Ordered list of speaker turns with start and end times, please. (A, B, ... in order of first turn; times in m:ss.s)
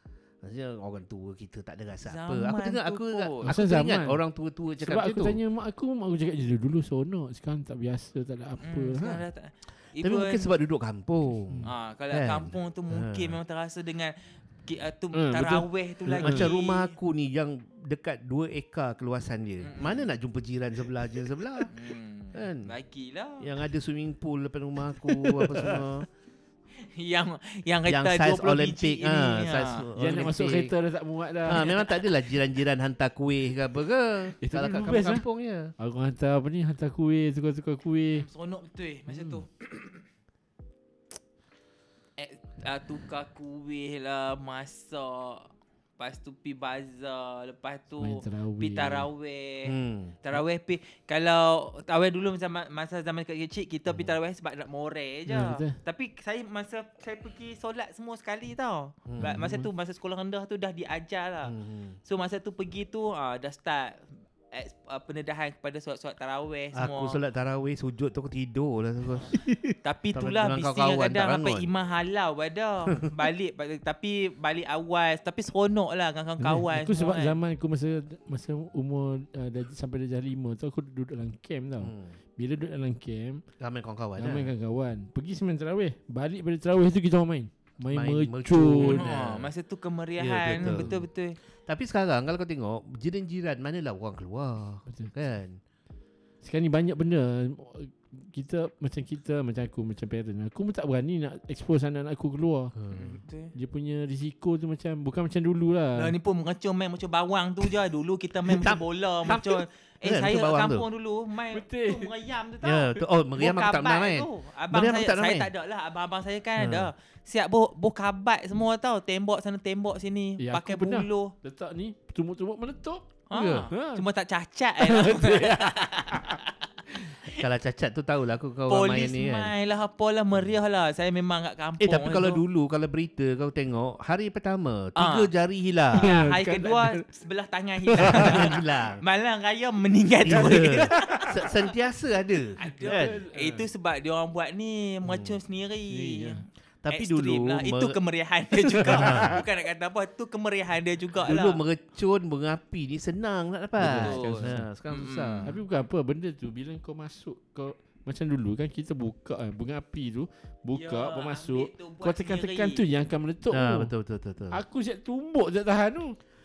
0:00.4-0:05.4 A
0:02.1-0:03.6 B
0:03.4-0:04.2 C
0:04.8-0:09.1 C
0:08.6-0:10.5 B
0:09.0-0:09.2 A
0:10.0-0:13.4 A
0:11.6-0:16.9 B
0:15.1-0:16.5 C
0:16.1-0:21.7 A
0:19.6-0:20.1 B
0:21.7-0:23.5 B
0:22.3-0:22.7 A
0:23.4-0:26.1 A
0:25.0-0:25.8 C
0:26.8-0:29.9 B
0:27.9-0:30.7 A
0:30.0-0:31.7 C
0:31.5-0:35.7 A
0:31.6-0:32.2 B
0:34.4-0:35.2 C
0:35.8-0:38.3 C
0:38.1-0:40.0 B
0:39.1-0:39.4 C
0:42.2-1:01.5 B
0:48.0-0:49.1 C
0:49.6-0:50.2 A
0:55.3-0:55.8 C
0:59.1-0:59.4 A
0:59.2-0:59.7 C
1:01.4-1:02.0 A
1:02.1-1:07.2 B
1:06.7-1:09.4 A
1:09.4-1:09.8 C
1:09.8-1:17.4 B
1:10.1-1:11.7 A
1:16.4-1:23.4 C
1:21.8-1:22.2 A
1:23.6-1:24.5 A
1:24.2-1:29.1 C
1:27.9-1:29.5 A
1:28.8-1:31.4 B
1:30.2-1:31.0 A
1:30.6-1:31.0 C
1:31.7-1:35.6 A
1:36.4-1:42.8 C
1:42.8-1:43.2 A
1:42.9-1:43.5 B
1:43.6-1:46.2 C
1:46.0-2:01.3 B
1:48.5-1:50.9 A
1:51.5-1:52.1 C
1:52.6-1:55.5 A
1:56.6-1:56.9 A
2:00.4-2:03.2 C
2:03.3-2:06.7 B
2:03.3-2:03.7 A
2:03.7-2:04.0 C
2:04.8-2:06.4 C
2:07.3-2:09.5 A
2:08.7-2:12.4 B
2:11.8-2:16.2 A
2:15.0-2:15.3 B
2:15.9-2:17.0 C
2:16.0-2:21.5 B
2:17.9-2:18.5 C
2:18.0-2:19.0 A
2:20.2-2:23.2 A
2:20.3-2:21.3 C
2:22.6-2:26.4 B
2:22.7-2:23.7 C
2:25.0-2:25.4 A
2:25.9-2:26.4 C
2:26.8-2:28.0 A
2:26.9-2:31.6 B
2:28.8-2:29.4 C
2:28.8-2:29.4 A
2:31.2-2:35.5 A
2:33.8-2:34.7 C
2:34.0-2:35.5 B
2:35.5-2:43.9 C
2:40.8-2:42.8 B
2:43.5-2:44.6 A
2:44.5-2:46.2 C